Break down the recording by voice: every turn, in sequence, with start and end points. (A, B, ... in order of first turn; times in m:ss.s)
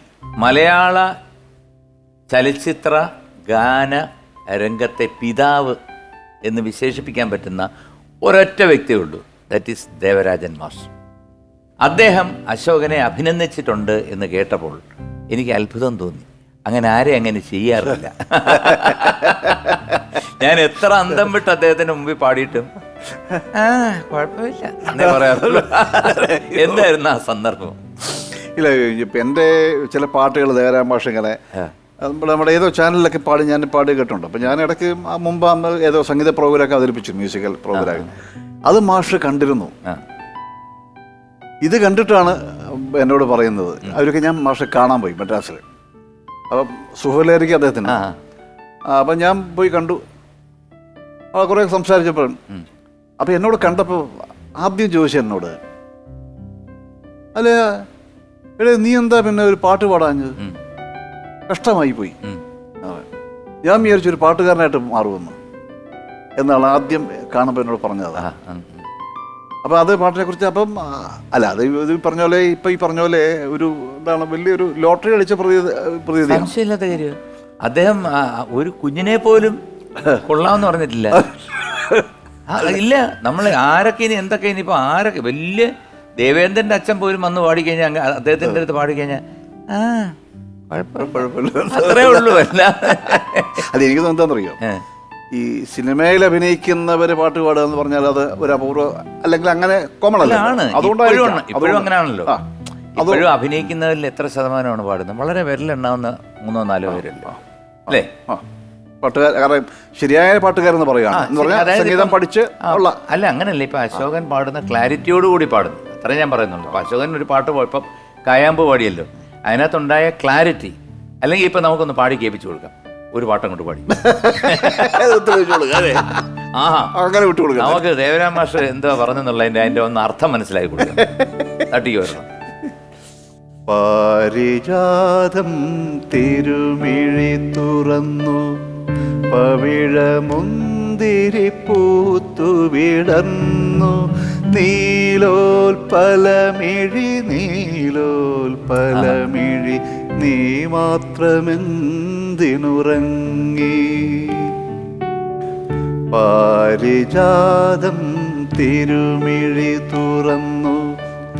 0:00.4-0:01.1 A
0:02.3-0:05.8 A
0:06.5-0:07.7 A
0:08.2-0:10.9 A
0:11.8-0:22.7 A
0:18.5-0:19.6 B
0:23.5-0:27.8 A
0:25.0-0:26.9 B
0:28.1-0:31.4 B
0:32.0-0:38.1 B
0:37.7-0:38.1 A
0:38.7-0:39.7 B
0:41.6-0:45.6 B
0:46.5-0:48.0 B
0:47.9-0:48.2 A
0:48.9-0:50.0 B
0:51.3-0:52.4 B
0:53.2-0:55.6 B
0:57.4-0:57.8 B
0:58.6-1:00.4 B
1:01.5-1:02.2 B
1:02.8-1:03.1 B
1:03.6-1:05.4 B
1:06.4-1:08.3 B
1:08.2-1:08.9 A
1:09.6-1:16.5 B
1:16.3-1:21.3 A
1:21.2-1:22.0 B
1:22.5-1:30.2 A
1:30.7-1:33.6 A
1:31.0-1:34.6 B
1:35.3-1:42.4 B
1:40.2-1:42.4 A
1:43.0-1:48.1 A
1:43.0-1:43.3 B
1:47.9-1:48.4 B
1:49.0-1:53.0 B
1:51.1-2:05.0 A
2:04.0-2:06.1 B
2:05.8-2:06.9 A
2:07.0-2:07.8 B
2:07.6-2:12.3 A
2:13.7-2:18.6 B
2:19.3-2:34.6 B
2:28.9-2:29.2 A
2:36.1-2:41.0 B